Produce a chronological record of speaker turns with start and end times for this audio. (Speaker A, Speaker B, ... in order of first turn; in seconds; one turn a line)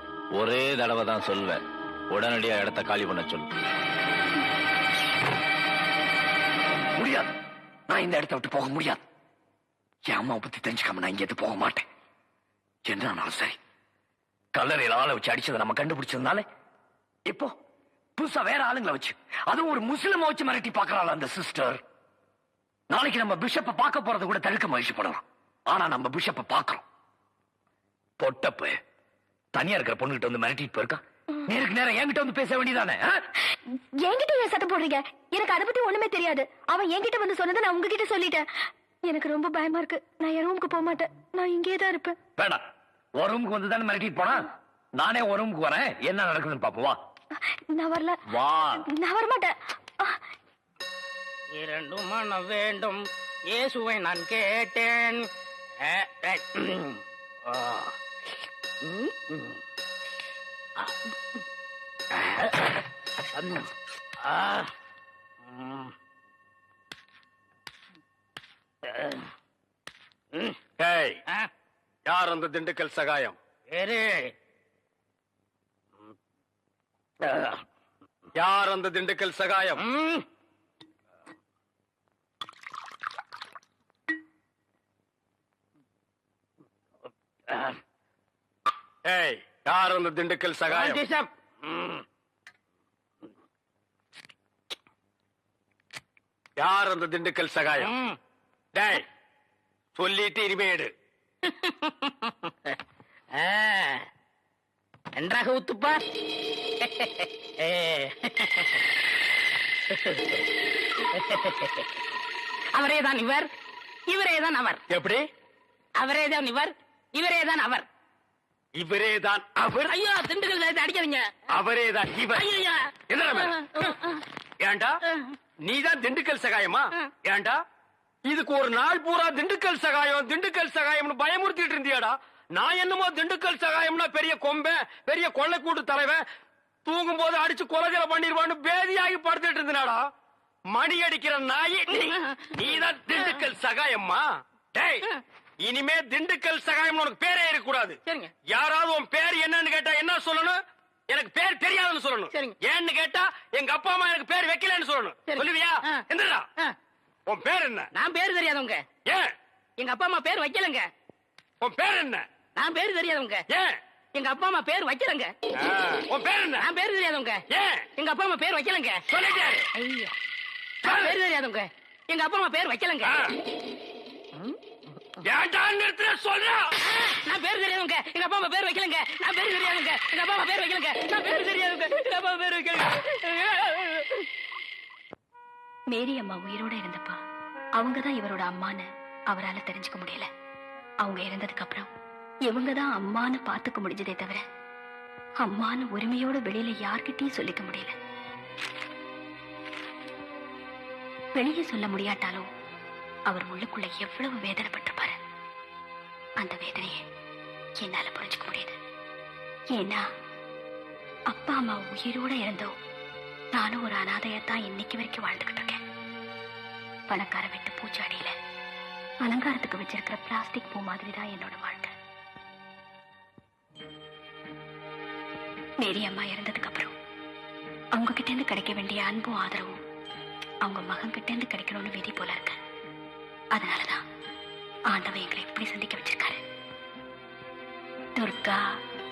Speaker A: 0.3-1.6
Speaker A: 2.1-3.5
Speaker B: 6.9-7.3
Speaker B: 7.9-9.0
Speaker B: 10.1-11.8
Speaker B: 12.8-13.6
Speaker B: 14.5-16.4
Speaker B: 17.3-17.5
Speaker B: 18.2-21.8
Speaker B: 22.9-26.8
Speaker B: 28.2-28.8
Speaker B: 29.5-33.3
Speaker C: 33.7-42.2
Speaker B: 42.4-42.6
Speaker B: 43.1-47.0
Speaker C: 47.4-48.2
Speaker B: 48.3-48.9
Speaker C: 48.8-50.2
Speaker D: 51.5-55.3
Speaker D: 55.8-57.9
Speaker D: 58.8-59.6
Speaker D: 62.2-62.7
Speaker D: 63.3-63.6
Speaker D: 64.2-64.7
Speaker D: 65.5-65.9
Speaker D: 68.8-69.2
Speaker E: 70.8-71.2
Speaker E: 72.1-73.4
Speaker D: 73.7-74.3
Speaker D: 77.2-77.6
Speaker E: 78.3-79.8
Speaker D: 79.8-80.2
Speaker E: 89.0-91.0
Speaker D: 90.7-92.0
Speaker E: 96.6-97.9
Speaker D: 97.8-98.2
Speaker E: 98.7-99.0
Speaker E: 100.0-100.9
Speaker D: 101.4-102.7
Speaker D: 103.3-104.0
Speaker D: 105.2-106.0
Speaker D: 106.8-108.8
Speaker D: 109.9-110.2
Speaker D: 111.1-111.9
Speaker D: 112.7-113.5
Speaker D: 114.1-114.8
Speaker E: 114.9-115.3
Speaker D: 116.0-117.8
Speaker E: 118.8-120.0
Speaker D: 119.9-121.4
Speaker E: 121.5-122.5
Speaker D: 122.3-124.2
Speaker E: 123.1-123.9
Speaker E: 124.6-125.0
Speaker E: 125.6-127.6
Speaker E: 128.3-136.2
Speaker E: 136.8-140.1
Speaker E: 140.7-145.1
Speaker D: 141.9-142.5
Speaker E: 145.6-156.5
Speaker D: 148.1-148.3
Speaker D: 155.3-156.0
Speaker E: 157.3-157.9
Speaker D: 157.9-158.8
Speaker E: 159.1-159.3
Speaker D: 159.8-160.9
Speaker E: 161.6-162.3
Speaker D: 162.6-163.4
Speaker E: 163.5-163.8
Speaker D: 164.1-165.3
Speaker E: 165.6-166.7
Speaker D: 166.6-167.4
Speaker E: 167.5-167.9
Speaker D: 167.9-169.1
Speaker E: 169.1-169.7
Speaker D: 169.8-170.1
Speaker D: 170.8-173.2
Speaker E: 170.8-171.1
Speaker E: 173.0-173.3
Speaker E: 175.2-176.7
Speaker D: 176.8-184.1
Speaker C: 185.9-187.2
Speaker C: 187.8-190.3
Speaker C: 191.0-191.9
Speaker C: 192.4-194.4
Speaker C: 195.4-197.9
Speaker C: 201.3-202.4
Speaker C: 203.3-205.2
Speaker C: 206.4-207.0
Speaker C: 207.8-208.8
Speaker C: 209.7-210.0
Speaker C: 211.3-212.7
Speaker C: 213.5-215.8
Speaker C: 217.1-218.4
Speaker C: 219.2-221.9
Speaker C: 225.8-226.9
Speaker C: 227.9-229.8
Speaker C: 230.6-232.6
Speaker C: 233.5-234.0
Speaker C: 234.9-236.4
Speaker C: 238.2-238.8